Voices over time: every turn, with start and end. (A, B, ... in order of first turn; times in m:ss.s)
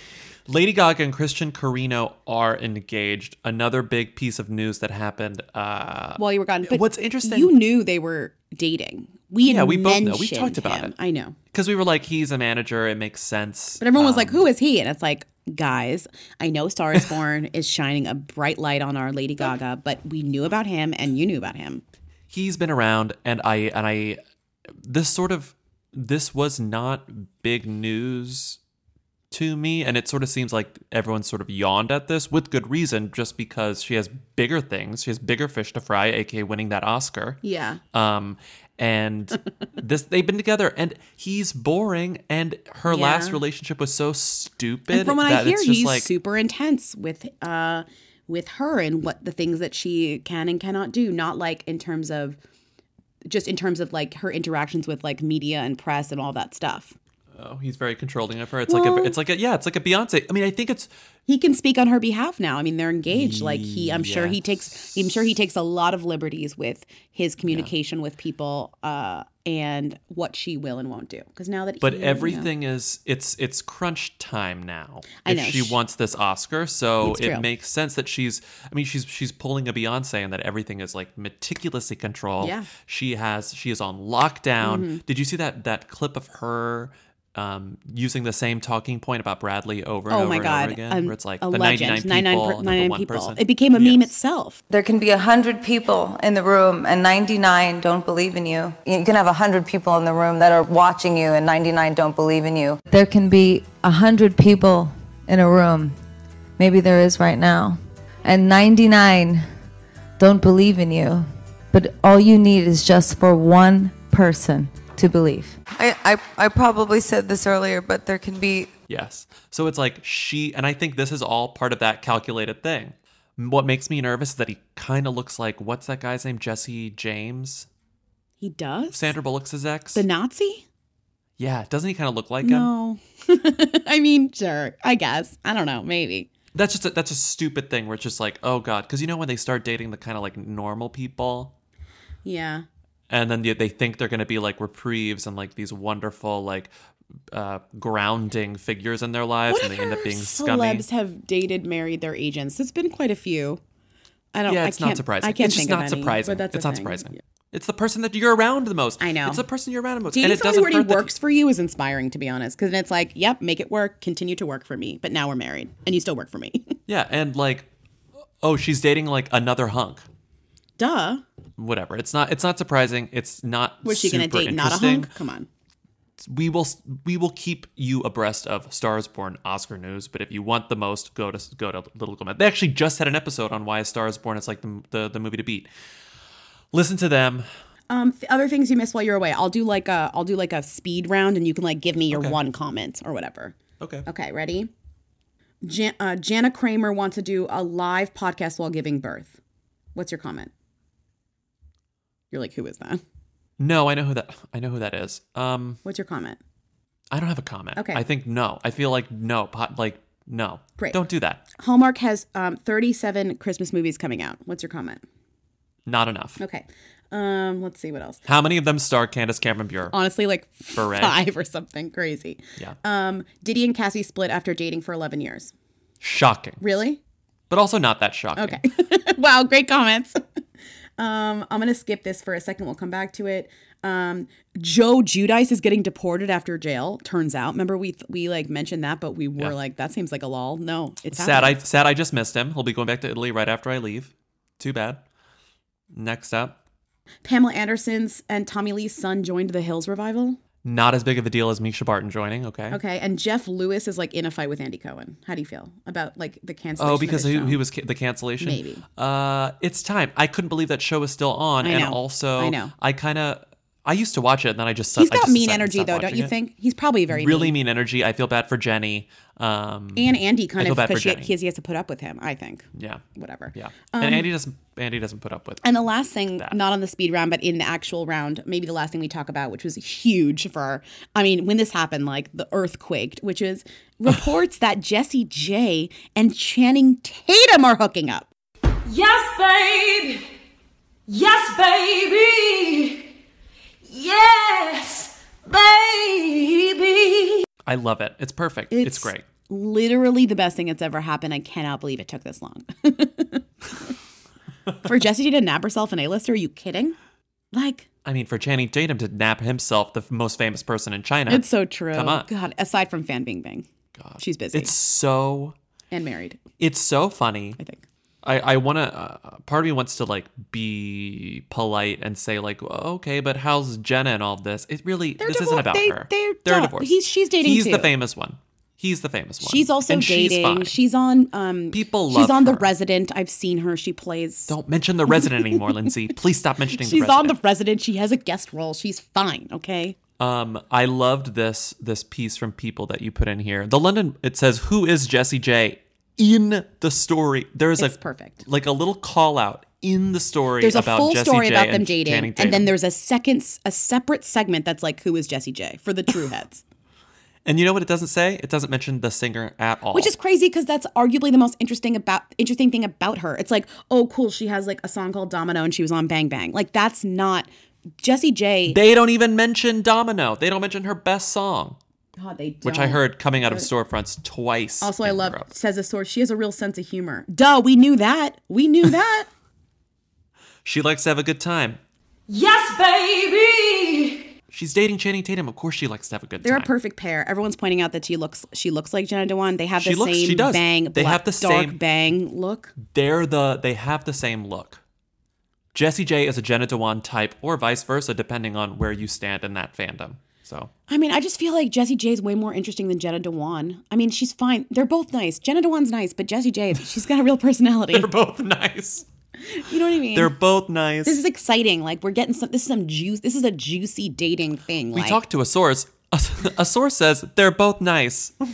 0:00.5-0:07.6 A
0:06.2-0:11.4 B
0:09.4-0:10.9 A
0:11.5-0:14.5 A
0:13.8-0:21.8 B
0:22.3-0:24.2 A
0:24.8-0:28.6 A
0:29.3-0:37.4 A
0:37.4-0:37.8 B
0:37.9-0:46.1 A
0:42.8-0:43.4 B
0:44.9-0:52.4 B
0:53.2-0:56.9 B
0:57.3-1:00.9 A
0:58.7-0:59.2 B
1:01.3-1:12.5 B
1:03.1-1:05.0 A
1:11.8-1:34.1 A
1:15.2-1:15.8 B
1:17.0-1:17.4 B
1:22.4-1:22.7 B
1:24.6-1:25.0 B
1:30.1-1:34.6 B
1:34.7-1:45.9 C
1:46.6-1:49.4 C
1:50.2-1:58.7 C
1:58.9-2:07.7 A
2:08.4-2:09.2 B
2:08.9-2:10.0 A
2:09.9-2:10.6 B
2:11.4-2:12.7 A
2:12.4-2:16.3 B
2:16.5-2:21.5 A
2:22.2-2:22.6 B
2:23.1-2:26.7 A
2:27.3-2:30.8 A
2:29.5-2:33.6 B
2:34.3-2:37.2 B
2:34.5-2:41.1 A
2:39.0-2:39.4 B
2:40.1-2:46.8 B
2:46.9-2:47.7 A
2:48.4-2:50.0 A
2:50.8-2:51.2 B
2:51.6-2:55.1 A
2:53.8-2:55.5 B
2:56.2-3:05.7 A
3:06.7-3:07.5 A
3:07.9-3:14.7 B
3:12.1-3:12.4 A
3:13.8-3:14.1 A
3:15.6-3:19.4 B
3:19.9-3:20.5 B
3:22.3-3:23.0 B
3:23.6-3:25.8 A
3:25.8-3:26.4 B
3:27.1-3:31.4 A
3:27.8-3:28.0 B
3:31.5-3:35.0 B
3:35.9-3:36.4 A
3:36.4-3:38.2 B
3:38.2-3:40.0 A
3:39.9-3:45.5 B
3:40.7-3:41.2 A
3:46.0-3:46.6 A
3:46.6-3:47.0 B
3:47.5-3:48.6 A
3:48.4-3:50.2 B
3:51.0-4:01.6 B
4:01.1-4:05.0 A
4:05.9-4:06.6 A
4:07.2-4:10.4 B
4:10.6-4:12.8 A
4:12.7-4:17.6 B
4:16.8-4:26.3 A
4:18.4-4:18.8 B
4:21.6-4:22.7 B
4:24.9-4:27.5 B
4:27.1-4:31.3 A
4:30.0-4:34.3 B
4:32.7-4:33.0 A
4:33.5-4:36.6 A
4:35.6-4:48.3 B
4:48.8-4:50.3 D
4:51.1-4:53.1 D
4:53.8-4:57.4 D
4:57.6-4:59.2 A
4:58.7-5:03.9 B
5:04.8-5:07.0 B
5:07.5-5:07.9 B
5:08.0-5:12.3 A
5:11.3-5:13.7 B
5:13.9-5:15.5 A
5:14.2-5:14.7 B
5:15.9-5:16.4 B
5:16.6-5:17.6 A
5:17.6-5:17.8 B
5:18.2-5:30.7 A
5:25.2-5:27.9 B
5:29.4-5:34.5 B
5:31.7-5:32.7 A
5:34.5-5:37.4 A
5:35.1-5:35.9 B
5:36.7-5:40.0 B
5:40.2-5:52.7 A
5:47.8-5:48.4 B
5:50.6-5:56.6 B
5:57.4-6:00.1 A
5:59.9-6:07.5 B
6:08.0-6:08.8 B
6:08.7-6:11.8 A
6:12.2-6:13.7 B
6:12.6-6:15.5 A
6:14.8-6:19.3 B
6:20.6-6:21.8 A
6:22.3-6:24.3 D
6:24.5-6:26.7 A
6:26.4-6:32.7 B
6:29.8-6:31.8 A
6:32.8-6:34.8 A
6:35.7-6:40.7 A
6:40.9-6:48.1 B
6:47.9-6:49.1 A
6:49.4-6:50.3 B
6:50.1-6:51.2 A
6:51.0-6:55.2 B
6:54.9-6:58.3 A